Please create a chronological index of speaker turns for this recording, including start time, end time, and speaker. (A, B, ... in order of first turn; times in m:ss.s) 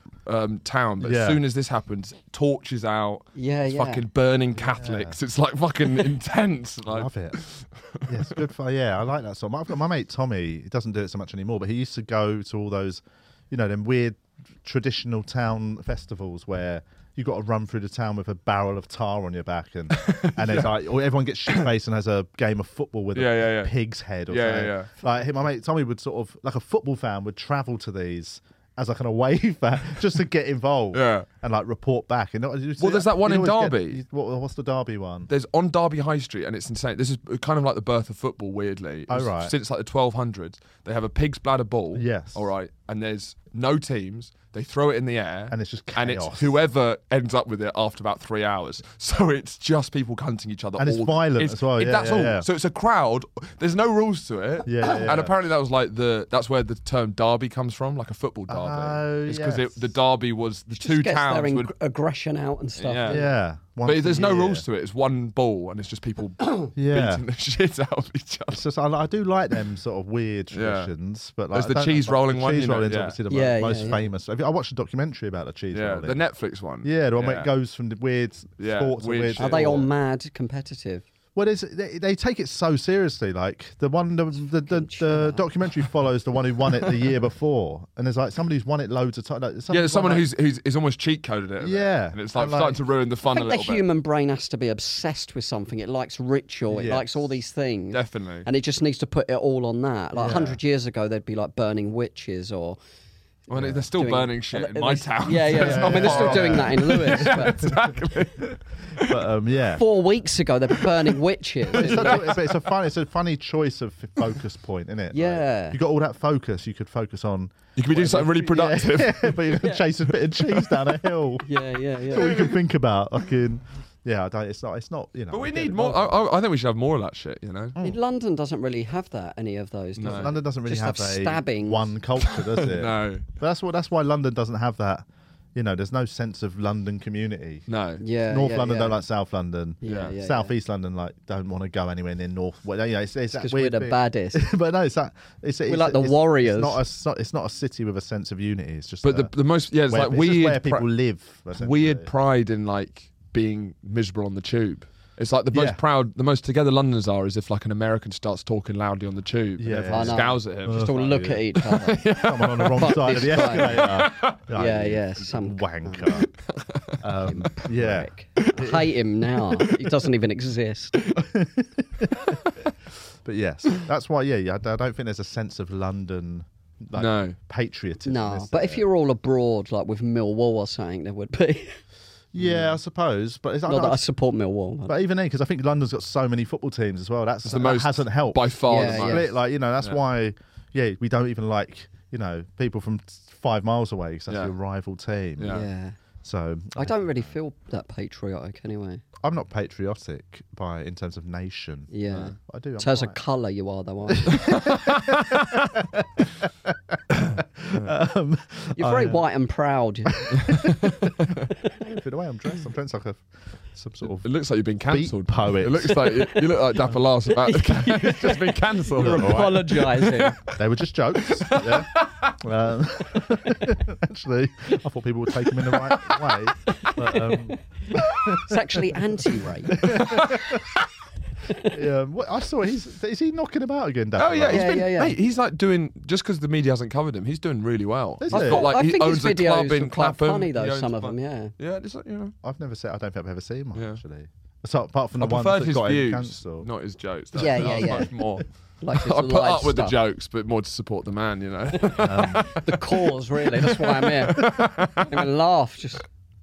0:00.3-0:08.4 A
0:01.0-0:01.4 B
0:03.4-0:04.0 C
0:04.6-0:05.2 B
0:06.9-0:07.4 B
0:08.1-0:35.3 B
0:19.9-0:20.7 A
0:23.2-0:23.7 A
0:24.3-0:24.9 A
0:30.9-0:31.3 A
0:32.8-0:34.0 A
0:35.3-1:01.7 A
0:39.1-0:39.5 B
0:41.9-0:42.4 B
0:45.5-0:46.6 B
0:50.8-0:52.5 B
0:54.6-0:55.3 B
0:58.5-0:59.8 B
1:00.8-1:03.3 C
1:02.8-1:03.2 A
1:03.1-1:04.6 B
1:03.8-1:08.6 A
1:06.8-1:07.2 B
1:08.5-1:16.2 B
1:10.5-1:10.9 A
1:11.5-1:13.2 A
1:13.3-1:14.0 C
1:15.7-1:17.5 A
1:16.8-1:19.8 B
1:18.6-1:19.9 A
1:19.4-1:21.0 C
1:21.4-1:30.3 B
1:24.6-1:25.5 C
1:29.7-1:33.8 A
1:31.6-1:32.8 B
1:33.2-1:42.8 C
1:36.7-1:37.2 B
1:37.9-1:38.5 A
1:40.2-1:40.6 B
1:43.5-1:49.3 A
1:43.6-1:43.8 B
1:43.9-1:47.7 C
1:45.6-1:49.8 B
1:49.7-1:52.4 C
1:50.8-1:51.1 A
1:51.7-1:52.6 A
1:51.7-2:01.5 B
1:55.1-1:55.8 C
1:57.8-1:59.6 A
2:01.4-2:02.4 C
2:02.0-2:06.2 B
2:02.2-2:02.6 A
2:05.3-2:07.8 A
2:07.8-2:11.9 C
2:10.0-2:10.3 A
2:10.1-2:17.7 B
2:12.2-2:13.3 A
2:17.7-2:18.0 A
2:18.0-2:19.0 C
2:18.3-2:29.3 B
2:19.8-2:20.5 C
2:19.8-2:20.2 A
2:23.3-2:24.5 C
2:25.7-2:26.8 C
2:29.0-2:30.9 A
2:29.9-2:32.1 B
2:31.5-2:44.4 A
2:35.5-2:35.8 B
2:39.6-2:41.4 B
2:39.8-2:42.0 C
2:42.1-2:46.3 B
2:42.8-2:44.0 C
2:44.5-2:46.3 C
2:46.1-2:47.0 A
2:47.0-2:48.9 B
2:47.2-2:51.0 C
2:48.4-2:48.8 A
2:49.4-2:49.9 A
2:51.0-2:51.3 A
2:51.2-2:52.4 B
2:53.2-2:58.8 B
2:57.0-2:57.4 A
2:58.0-3:01.8 C
3:02.3-3:04.0 B
3:02.4-3:02.7 C
3:03.7-3:05.0 C
3:04.9-3:15.6 B
3:07.4-3:09.3 A
3:08.6-3:09.3 C
3:14.3-3:14.5 A
3:15.4-3:15.7 A
3:15.5-3:16.0 C
3:16.2-3:17.3 B
3:16.8-3:19.0 C
3:19.2-3:23.2 B
3:21.9-3:24.5 C
3:24.1-3:29.2 B
3:24.3-3:25.7 A
3:28.8-3:30.4 C
3:30.1-3:31.3 B
3:30.4-3:31.5 A
3:31.9-3:34.3 B
3:34.1-3:40.6 A
3:34.9-3:36.2 B
3:36.2-3:36.4 C
3:37.3-3:40.4 C
3:39.0-3:39.6 B
3:40.5-3:49.0 B
3:41.2-3:42.4 A
3:45.4-3:46.9 A
3:48.0-3:48.4 A
3:48.3-3:50.0 C
3:49.7-3:50.6 B
3:49.8-3:50.6 A
3:51.5-3:51.8 C
3:51.6-3:54.8 B
3:54.2-4:02.4 A
3:54.5-3:55.2 C
3:58.2-3:58.7 B
3:58.3-4:01.5 C
4:02.4-4:06.7 B
4:03.8-4:04.0 A
4:05.2-4:15.3 A
4:07.4-4:08.1 C
4:07.4-4:08.0 B
4:08.8-4:10.0 C
4:11.7-4:16.1 C
4:12.0-4:12.5 B